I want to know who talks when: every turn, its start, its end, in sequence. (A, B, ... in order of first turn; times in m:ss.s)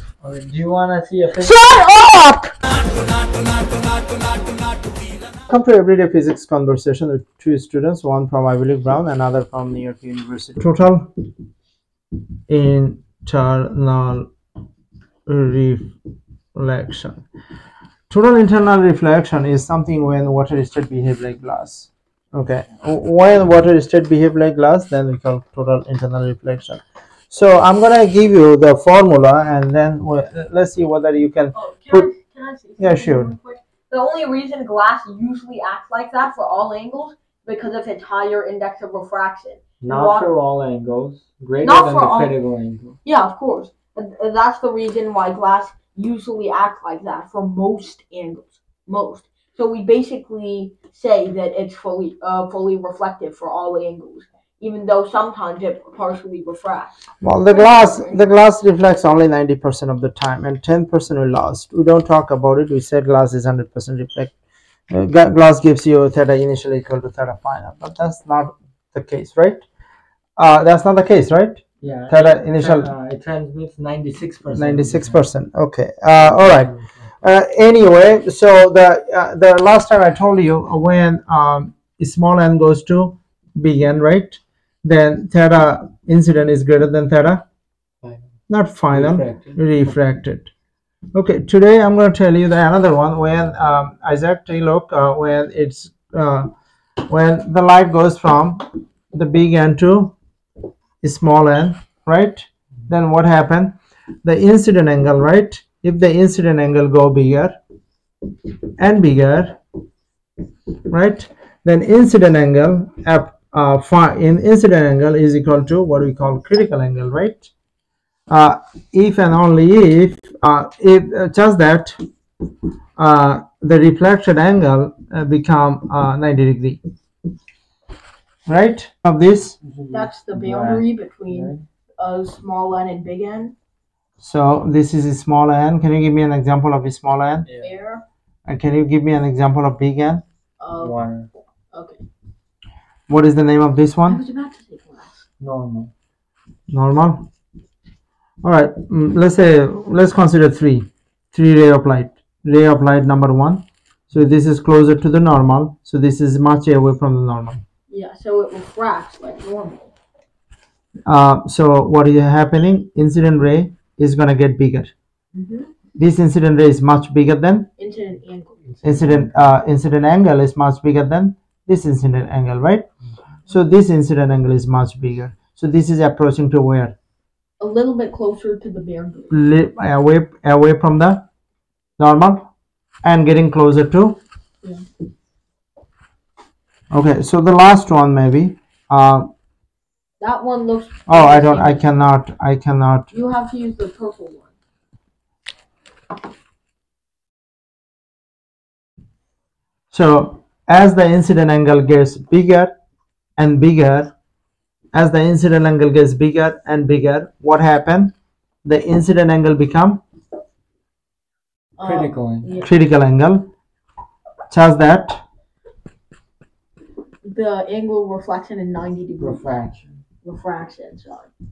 0:00.2-0:01.6 A
0:01.3-0:02.5 B
0:03.2-0:04.2 C
0:05.5-0:11.1 C
0:12.5-0:14.3 C
0:15.2-0:16.0 C
0:16.5-0:17.2 C
0:18.1-0:32.1 C
0:31.5-0:40.3 B
0:32.8-0:33.3 C
0:39.8-0:43.0 A
0:41.6-0:42.3 B
0:43.0-0:56.9 B
0:57.2-1:04.3 C
0:57.5-0:58.3 B
1:04.9-1:09.6 C
1:10.4-1:12.9 C
1:11.8-1:15.2 A
1:14.5-1:27.4 C
1:16.2-1:17.0 A
1:28.0-1:28.3 A
1:28.5-1:30.5 C
1:28.9-1:29.6 A
1:31.1-1:36.5 C
1:37.0-1:40.2 C
1:41.0-1:47.6 C
1:48.8-1:49.6 C
1:50.8-1:57.5 C
1:58.3-2:02.0 C
2:03.0-2:06.8 C
2:08.5-2:09.6 C
2:09.6-2:11.6 A
2:09.9-2:13.5 B
2:14.2-2:17.4 C
2:17.4-2:17.8 A
2:17.6-2:18.0 B
2:18.5-2:20.2 C
2:20.6-2:21.0 B
2:20.8-2:21.3 A
2:21.7-2:22.0 B
2:23.1-2:24.2 C
2:24.1-2:25.2 B
2:25.4-2:25.9 A
2:26.7-2:27.3 C
2:28.4-2:37.6 C
2:37.9-2:39.9 B
2:41.0-2:44.9 C
2:45.3-2:45.7 B
2:46.0-2:47.7 C
2:47.8-2:48.6 B
2:48.6-2:49.6 A
2:48.8-2:52.9 C
2:53.5-2:57.0 C
2:57.6-2:59.4 B
2:59.3-3:01.2 C
3:02.0-3:02.5 C
3:03.0-3:04.2 C
3:06.9-3:09.3 C
3:10.2-3:11.8 B
3:11.1-3:13.1 C
3:13.1-3:14.5 B
3:19.9-3:22.7 C
3:23.4-3:24.1 C
3:24.9-3:30.0 C
3:31.8-3:32.7 B
3:31.8-3:32.6 A
3:32.6-3:33.5 C
3:34.5-3:35.2 C
3:37.2-3:39.5 B
3:39.2-3:40.0 A
3:40.2-3:41.3 B